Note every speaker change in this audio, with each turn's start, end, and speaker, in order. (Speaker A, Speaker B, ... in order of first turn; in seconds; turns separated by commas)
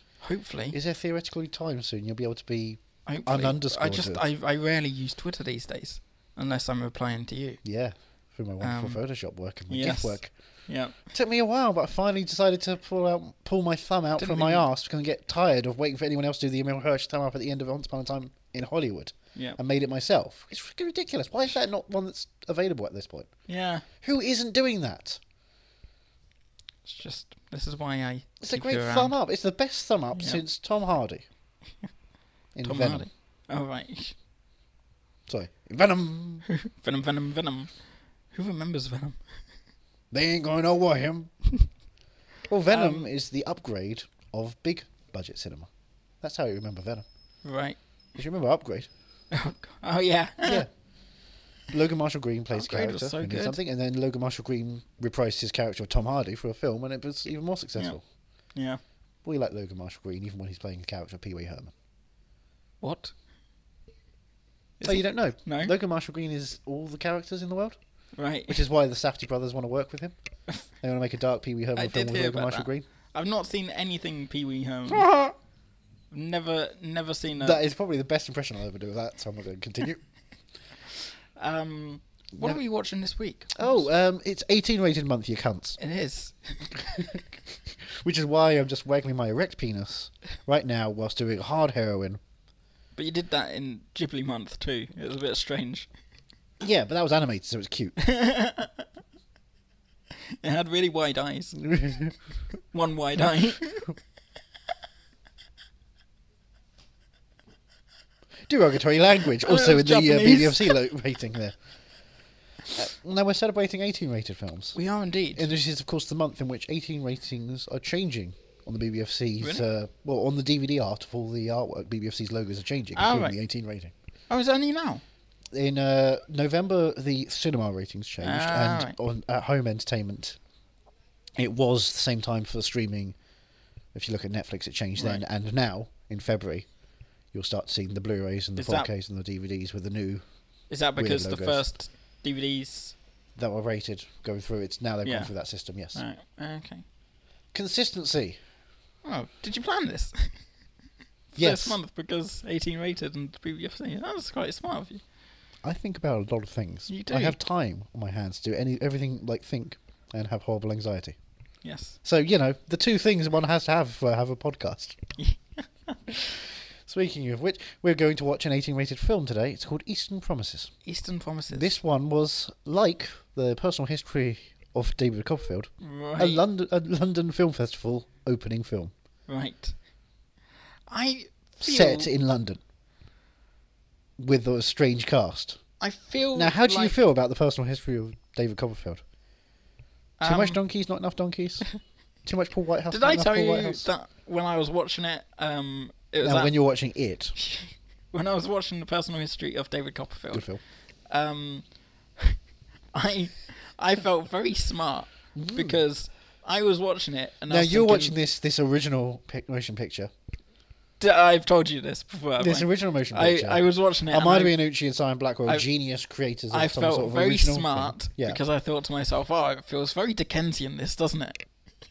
Speaker A: 0.2-0.8, Speaker B: 0.7-4.2, Speaker A: 3.1-7.6, Speaker B: 7.6-10.3, Speaker A: 8.6-9.0, Speaker A: 9.7-11.0, Speaker B: 11.1-23.3, Speaker A: 14.2-14.7, Speaker A: 23.5-23.9, Speaker B: 24.0-25.2, Speaker A: 26.9-29.2, Speaker B: 28.4-31.2, Speaker A: 30.1-30.4, Speaker B: 32.5-33.1, Speaker A: 32.6-34.1, Speaker B: 35.3-36.5, Speaker A: 36.5-37.7, Speaker A: 38.3-39.2, Speaker B: 40.1-41.3, Speaker B: 42.5-45.7, Speaker A: 42.7-43.1, Speaker B: 46.2-47.0, Speaker A: 47.4-47.8, Speaker B: 48.2-48.9, Speaker A: 49.3-50.6, Speaker B: 50.4-50.7, Speaker B: 51.7-58.0, Speaker A: 52.5-53.6, Speaker A: 58.5-58.8, Speaker B: 59.2-61.7, Speaker A: 62.8-63.1, Speaker A: 64.8-65.8, Speaker B: 64.8-67.8, Speaker A: 68.2-68.6, Speaker B: 68.5-70.2, Speaker B: 70.8-72.9, Speaker A: 71.8-75.1, Speaker B: 74.9-75.3, Speaker A: 76.1-77.7, Speaker B: 77.3-80.0, Speaker A: 81.4-83.8, Speaker B: 82.3-82.6, Speaker B: 83.5-85.8, Speaker A: 85.8-87.1, Speaker B: 86.9-87.2, Speaker B: 88.0-92.2, Speaker A: 93.0-95.9, Speaker B: 96.6-98.0, Speaker A: 98.0-98.8, Speaker A: 100.4-101.6, Speaker B: 101.6-102.1, Speaker A: 102.7-103.9, Speaker B: 108.5-111.5, Speaker A: 109.4-110.8, Speaker B: 112.8-114.8, Speaker A: 114.8-115.5, Speaker B: 115.3-123.9, Speaker A: 123.0-123.4, Speaker A: 124.3-125.0, Speaker B: 125.5-130.4, Speaker A: 128.2-129.0, Speaker B: 131.3-133.2, Speaker B: 133.9-136.7, Speaker A: 135.0-135.2, Speaker B: 137.3-140.2, Speaker A: 138.6-138.9, Speaker A: 140.7-142.9, Speaker B: 141.0-141.7, Speaker B: 143.4-146.0, Speaker A: 145.0-145.3, Speaker A: 145.9-146.8, Speaker B: 147.5-148.4, Speaker A: 149.0-150.4, Speaker A: 151.3-155.0, Speaker B: 151.4-151.8, Speaker B: 155.6-161.2, Speaker A: 156.9-157.4, Speaker A: 161.6-162.0, Speaker B: 162.0-165.0, Speaker A: 165.2-165.7, Speaker B: 166.9-170.7, Speaker A: 170.9-171.7, Speaker B: 171.5-178.9, Speaker A: 175.8-176.4, Speaker A: 179.3-179.8, Speaker A: 180.9-182.1, Speaker B: 181.6-182.6, Speaker B: 184.2-185.6, Speaker A: 185.8-187.1, Speaker B: 186.3-189.0, Speaker A: 190.2-190.6, Speaker B: 190.2-191.7, Speaker B: 192.2-193.9, Speaker A: 192.9-196.6, Speaker B: 196.2-197.3, Speaker A: 197.4-200.5, Speaker B: 200.3-200.6, Speaker A: 201.1-201.7, Speaker A: 202.9-208.2, Speaker B: 205.3-205.8, Speaker B: 207.5-210.1, Speaker A: 211.0-214.6, Speaker B: 212.4-218.4, Speaker A: 216.5-221.4